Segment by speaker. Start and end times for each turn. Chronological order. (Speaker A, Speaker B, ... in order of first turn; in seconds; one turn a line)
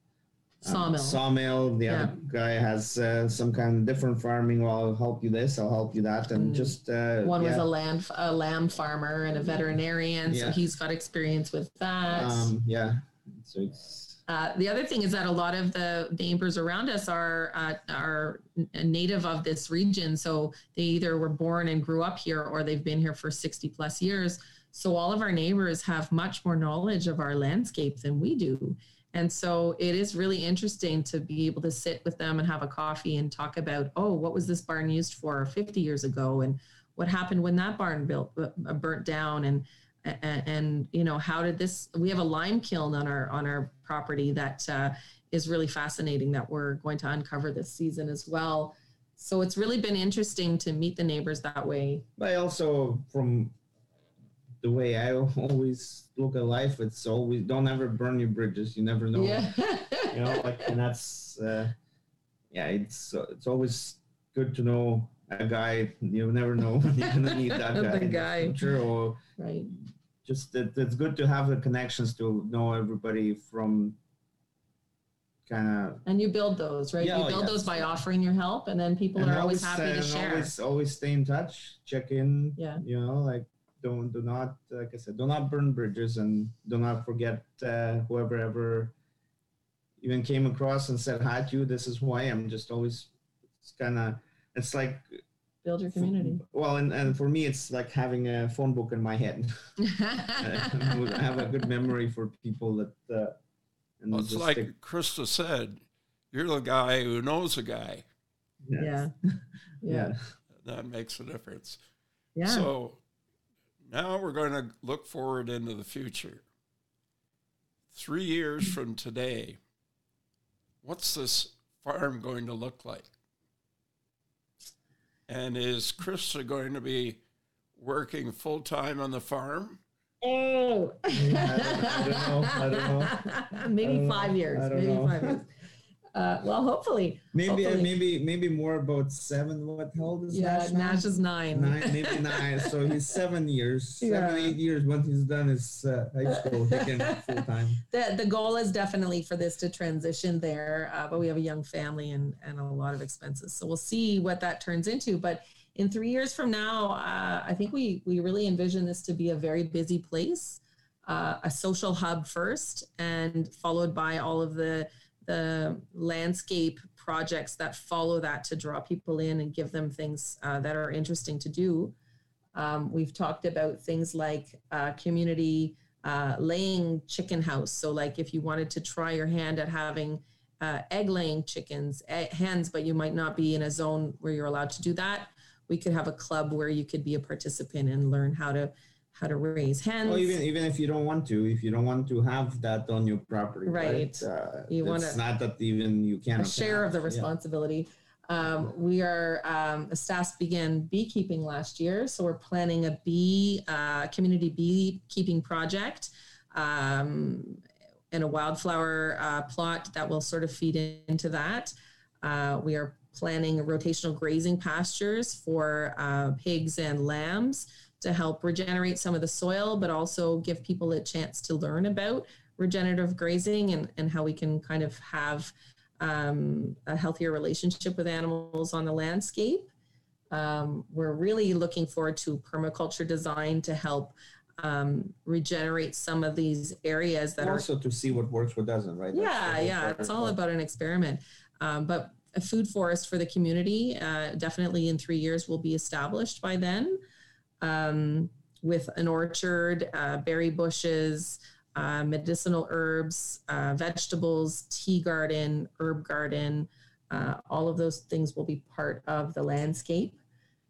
Speaker A: 0.6-7.7
Speaker B: 0.6-1.2
Speaker B: 1.9-2.1
Speaker B: 6.3-12.5
Speaker A: 10.3-10.6
Speaker A: 12.1-14.2
Speaker B: 14.3-52.0
Speaker A: 52.2-53.5
Speaker A: 54.6-61.7
Speaker B: 59.1-60.7
Speaker A: 62.5-69.2
Speaker B: 67.1-68.5
Speaker B: 69.4-69.7
Speaker A: 69.7-74.0
Speaker A: 75.5-76.0
Speaker B: 76.0-80.5
Speaker A: 77.0-77.9
Speaker A: 79.2-88.9
Speaker B: 82.6-82.8
Speaker A: 90.0-95.2
Speaker B: 95.6-96.4
Speaker A: 95.9-99.5
Speaker B: 99.8-101.1
Speaker A: 100.4-103.4
Speaker A: 104.0-104.7
Speaker C: 104.1-105.8
Speaker C: 106.3-108.0
Speaker A: 108.7-109.0
Speaker B: 108.8-109.1
Speaker B: 109.8-110.1
Speaker A: 109.8-110.2
Speaker C: 110.6-111.8
Speaker B: 112.3-112.7
Speaker C: 112.4-113.0
Speaker C: 113.8-116.4
Speaker C: 117.9-119.6
Speaker C: 120.8-123.1
Speaker C: 125.3-127.2
Speaker C: 127.8-129.8
Speaker B: 130.2-135.5
Speaker A: 131.1-133.2
Speaker A: 133.8-135.4
Speaker B: 136.1-137.9
Speaker A: 137.3-147.8
Speaker B: 140.3-142.7
Speaker B: 144.0-144.6
Speaker B: 146.3-147.3
Speaker B: 147.9-171.9
Speaker B: 172.5-190.3
Speaker A: 190.0-197.3
Speaker B: 193.7-195.2
Speaker B: 196.4-207.6
Speaker B: 208.1-229.7
Speaker B: 230.3-237.7
Speaker A: 237.4-240.4
Speaker B: 239.1-247.0
Speaker B: 247.6-260.2